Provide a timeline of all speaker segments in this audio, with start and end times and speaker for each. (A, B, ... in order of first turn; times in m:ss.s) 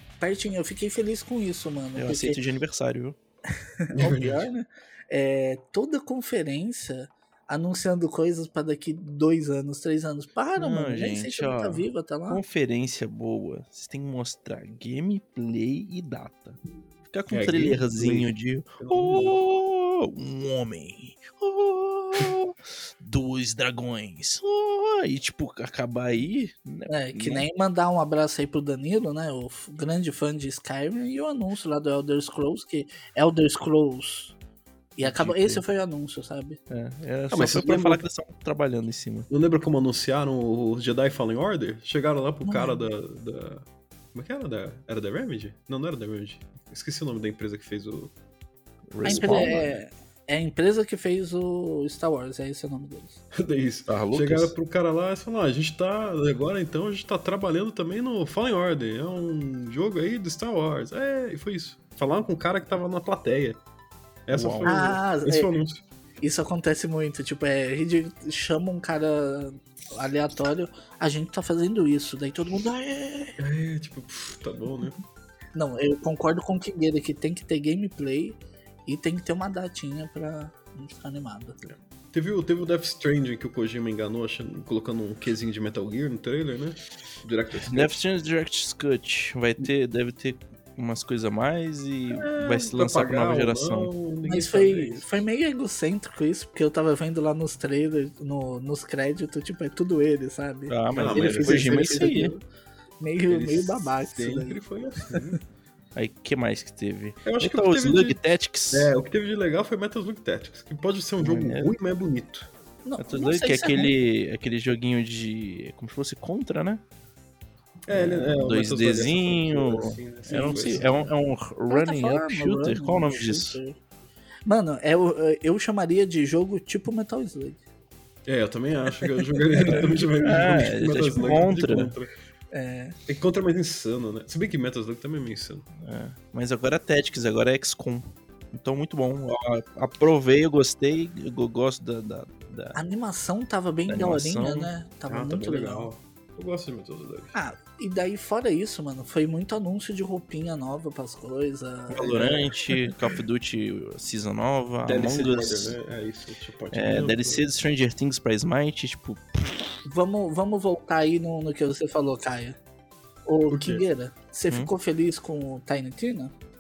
0:00.2-0:02.4 A
0:02.0-0:03.2 B
0:03.9-0:12.4 A
0:03.9-0:04.5 C
0:10.6-0:27.5 B
0:17.3-0:19.4 C
0:26.9-0:34.4 A
0:35.0-0:36.6 A
0:35.0-0:35.6 B
0:36.7-0:39.3 B
0:37.3-0:38.0 C
0:39.3-0:48.1 C
0:42.4-0:42.9 A
0:48.9-0:49.8 B
0:49.0-0:53.2 A
0:53.3-1:03.6 C
0:53.9-0:54.5 B
1:04.3-1:05.8 C
1:04.3-1:04.9 B
1:04.6-1:05.5 A
1:06.2-1:13.4 A
1:13.4-1:15.0 C
1:15.5-1:21.6 A
1:21.6-1:27.9 C
1:27.6-1:33.9 B
1:32.1-1:35.2 C
1:34.3-1:42.4 A
1:40.7-1:42.4 B
1:40.9-1:42.3 C
1:43.0-1:44.6 A
1:43.3-1:45.4 C
1:46.0-1:48.9 B
1:47.2-1:48.2 C
1:48.7-1:52.5 C
1:51.2-1:51.7 B
1:52.8-1:53.9 A
1:53.0-1:56.8 B
1:57.9-2:00.9 C
1:57.9-2:03.6 B
2:00.3-2:00.9 A
2:01.7-2:03.8 A
2:04.5-2:07.6 A
2:08.3-2:12.1 C
2:10.2-2:11.9 B
2:12.5-2:13.0 A
2:13.1-2:15.7 C
2:15.8-2:22.8 B
2:22.8-2:25.9 A
2:23.9-2:24.7 B
2:25.1-2:27.3 C
2:27.3-2:32.9 A
2:31.9-2:35.8 B
2:34.9-2:37.5 C
2:36.7-2:39.7 B
2:39.8-2:42.6 A
2:43.3-2:46.3 A
2:43.5-2:43.8 C